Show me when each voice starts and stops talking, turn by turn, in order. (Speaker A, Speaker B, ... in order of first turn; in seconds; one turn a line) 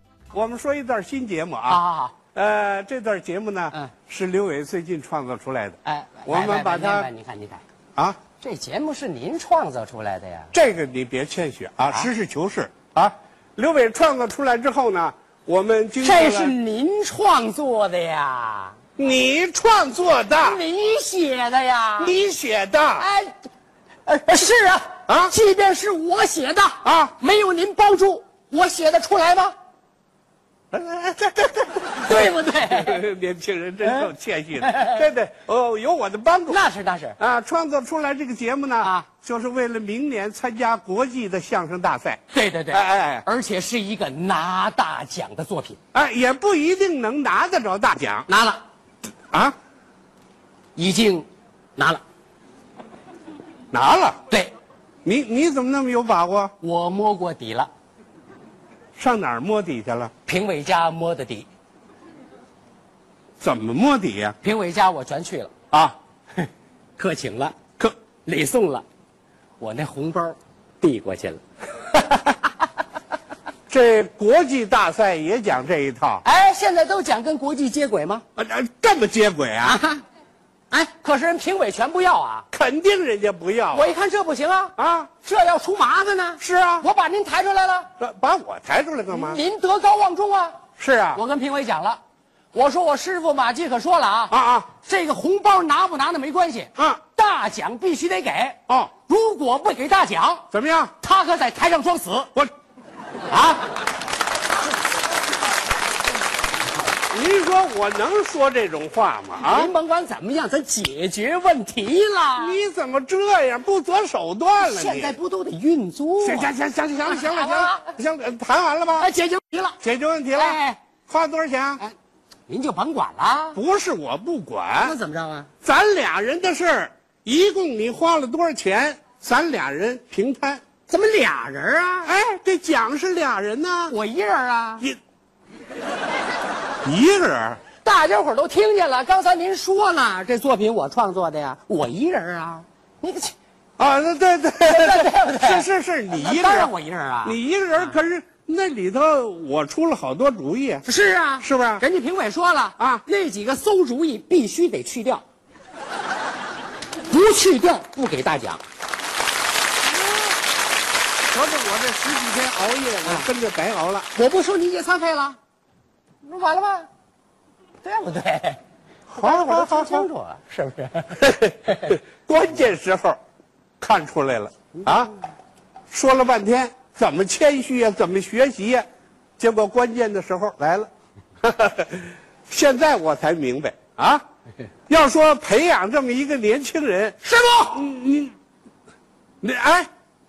Speaker A: 0.3-1.8
Speaker B: 1.7-2.2
Speaker A: 2.3-7.1
Speaker B: 5.8-7.6
Speaker A: 8.0-8.2
Speaker B: 8.3-10.5
Speaker A: 10.5-16.5
Speaker B: 16.0-18.8
Speaker A: 19.0-20.6
Speaker B: 20.4-22.2
Speaker A: 22.0-23.1
Speaker B: 23.0-23.3
Speaker B: 24.1-29.5
Speaker A: 25.1-25.3
Speaker A: 26.8-27.1
Speaker A: 30.7-36.6
Speaker B: 32.0-33.0
Speaker B: 34.6-35.0
Speaker B: 36.5-37.2
Speaker A: 37.2-42.2
Speaker B: 38.8-39.1
Speaker B: 42.3-45.8
Speaker A: 42.7-43.2
Speaker A: 45.9-48.3
Speaker B: 48.3-48.6
Speaker B: 50.8-52.0
Speaker A: 53.7-54.2
Speaker A: 55.0-56.5
Speaker B: 56.6-57.7
Speaker A: 59.0-60.1
Speaker B: 60.3-61.5
Speaker A: 63.4-64.3
Speaker B: 64.4-65.5
Speaker B: 66.4-67.5
Speaker B: 68.2-68.8
Speaker B: 69.6-71.4
Speaker B: 71.9-72.3
Speaker A: 73.7-76.2
Speaker B: 76.2-78.2
Speaker A: 78.3-79.8
Speaker B: 79.6-80.0
Speaker B: 80.7-82.5
Speaker A: 82.5-83.9
Speaker B: 83.7-87.9
Speaker A: 84.8-85.1
Speaker A: 86.4-86.9
Speaker A: 88.0-89.4
Speaker B: 89.1-90.6
Speaker A: 90.8-91.2
Speaker B: 91.1-92.0
Speaker B: 92.5-100.5
Speaker A: 94.3-94.7
Speaker A: 98.7-98.9
Speaker A: 100.5-100.9
Speaker B: 101.0-102.3
Speaker B: 103.3-103.6
Speaker A: 107.1-109.7
Speaker B: 109.4-112.6
Speaker A: 112.4-115.2
Speaker B: 114.6-116.5
Speaker A: 116.2-119.1
Speaker B: 117.0-117.9
Speaker B: 119.0-119.8
Speaker A: 119.8-121.8
Speaker B: 120.3-120.8
Speaker B: 122.5-123.6
Speaker A: 123.5-124.9
Speaker B: 124.8-125.5
Speaker A: 125.6-130.6
Speaker B: 130.9-132.1
Speaker A: 132.0-133.9
Speaker B: 133.9-134.8
Speaker A: 136.8-137.6
Speaker B: 137.8-143.3
Speaker A: 143.8-146.7
Speaker B: 144.6-147.9
Speaker A: 147.2-150.8
Speaker B: 150.8-155.2
Speaker A: 151.4-151.8
Speaker A: 152.8-153.0
Speaker B: 157.1-158.6
Speaker A: 161.3-164.1
Speaker B: 164.1-165.4
Speaker B: 166.2-166.9
Speaker B: 167.8-168.6
Speaker A: 169.1-170.1
Speaker B: 169.2-171.9
Speaker A: 171.2-173.2
Speaker A: 173.8-175.1
Speaker A: 175.9-178.8
Speaker A: 179.4-180.9
Speaker A: 181.4-184.2
Speaker A: 184.9-187.2
Speaker B: 187.2-187.8
Speaker A: 187.7-188.3
Speaker A: 189.4-189.9